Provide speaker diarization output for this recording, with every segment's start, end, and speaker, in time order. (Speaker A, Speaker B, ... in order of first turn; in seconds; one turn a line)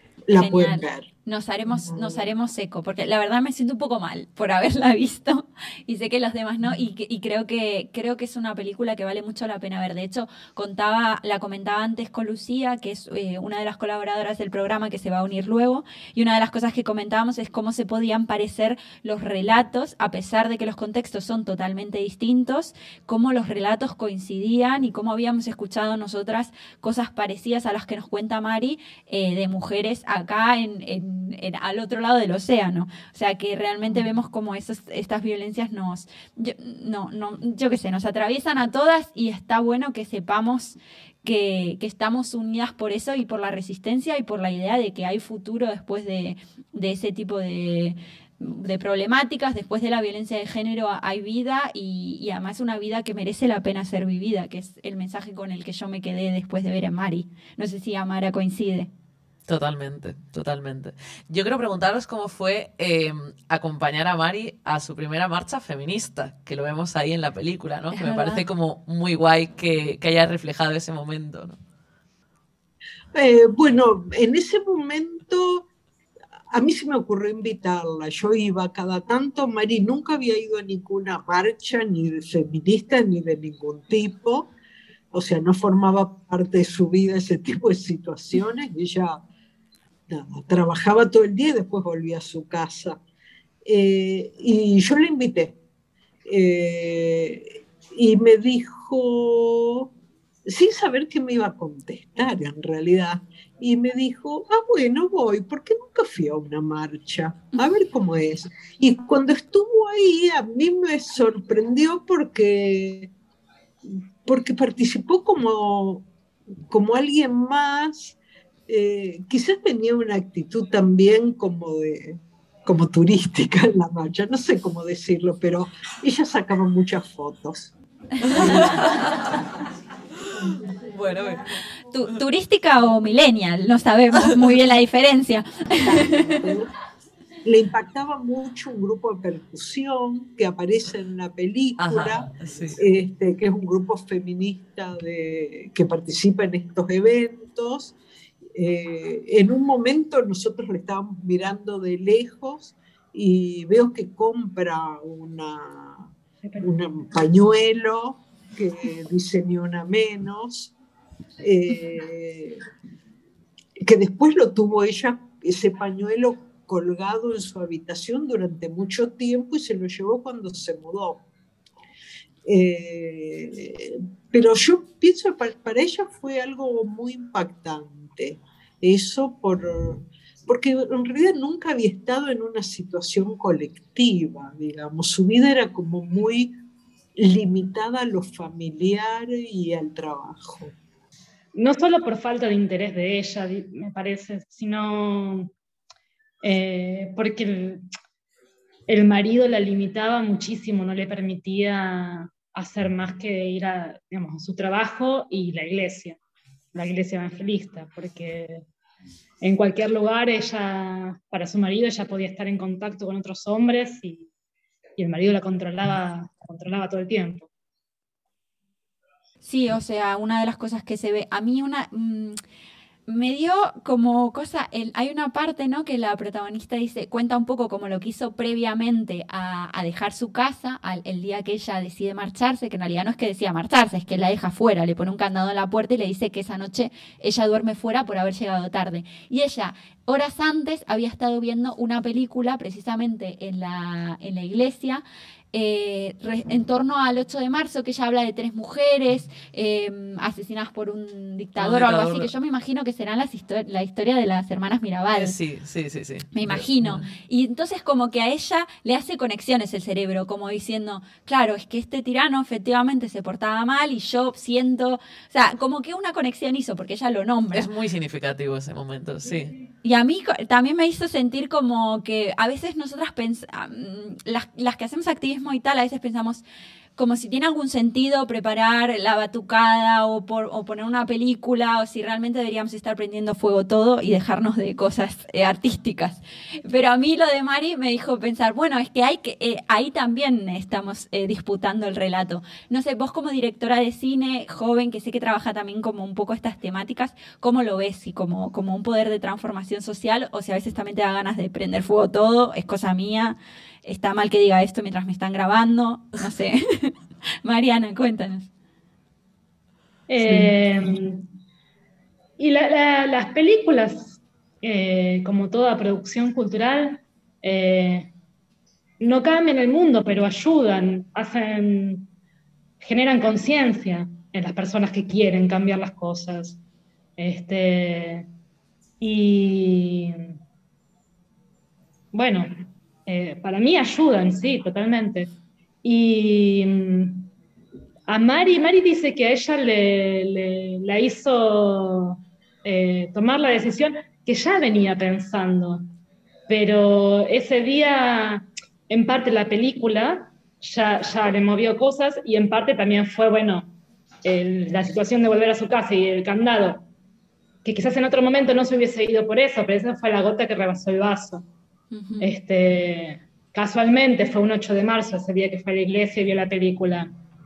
Speaker A: 0.3-1.1
Speaker B: 0.3-58.9
Speaker A: 1.9-2.2
Speaker C: 59.5-71.6
Speaker B: 67.9-68.4
Speaker A: 73.1-75.6
Speaker A: 76.5-84.5
Speaker A: 85.1-89.2
Speaker A: 90.1-93.0
Speaker A: 93.6-95.6
Speaker A: 96.2-99.9
Speaker A: 100.5-113.1
Speaker A: 113.8-116.0
Speaker A: 116.7-118.2
Speaker A: 118.7-127.7
Speaker C: 128.2-129.3
Speaker B: 128.3-128.7
Speaker A: 128.3-128.9
Speaker C: 130.4-131.4
Speaker B: 131.9-136.4
Speaker A: 135.8-136.7
Speaker A: 137.4-147.9
Speaker C: 141.8-142.8
Speaker A: 148.5-160.7
Speaker A: 161.4-162.6
Speaker A: 163.8-171.2
Speaker A: 172.4-186.5
Speaker A: 187.2-190.7
Speaker D: 191.5-195.5
Speaker D: 196.4-197.8
Speaker D: 198.9-206.2
Speaker D: 206.7-208.6
Speaker D: 209.4-214.3
Speaker D: 215.0-217.5
Speaker B: 219.4-222.4
Speaker B: 223.1-255.3
Speaker C: 251.6-252.3
Speaker C: 255.1-257.1
Speaker B: 256.3-267.7
Speaker C: 267.5-269.5
Speaker B: 269.8-276.4
Speaker B: 277.0-308.5
Speaker D: 310.1-311.2
Speaker D: 312.4-318.1
Speaker D: 319.0-322.1
Speaker D: 322.8-326.6
Speaker D: 327.2-328.3
Speaker D: 329.0-330.3
Speaker D: 332.1-332.5
Speaker D: 333.1-335.3
Speaker D: 335.8-337.3
Speaker D: 338.1-345.9
Speaker D: 346.5-353.7
Speaker D: 354.2-356.8
Speaker D: 357.6-361.4
Speaker B: 361.9-362.3
Speaker D: 362.2-367.1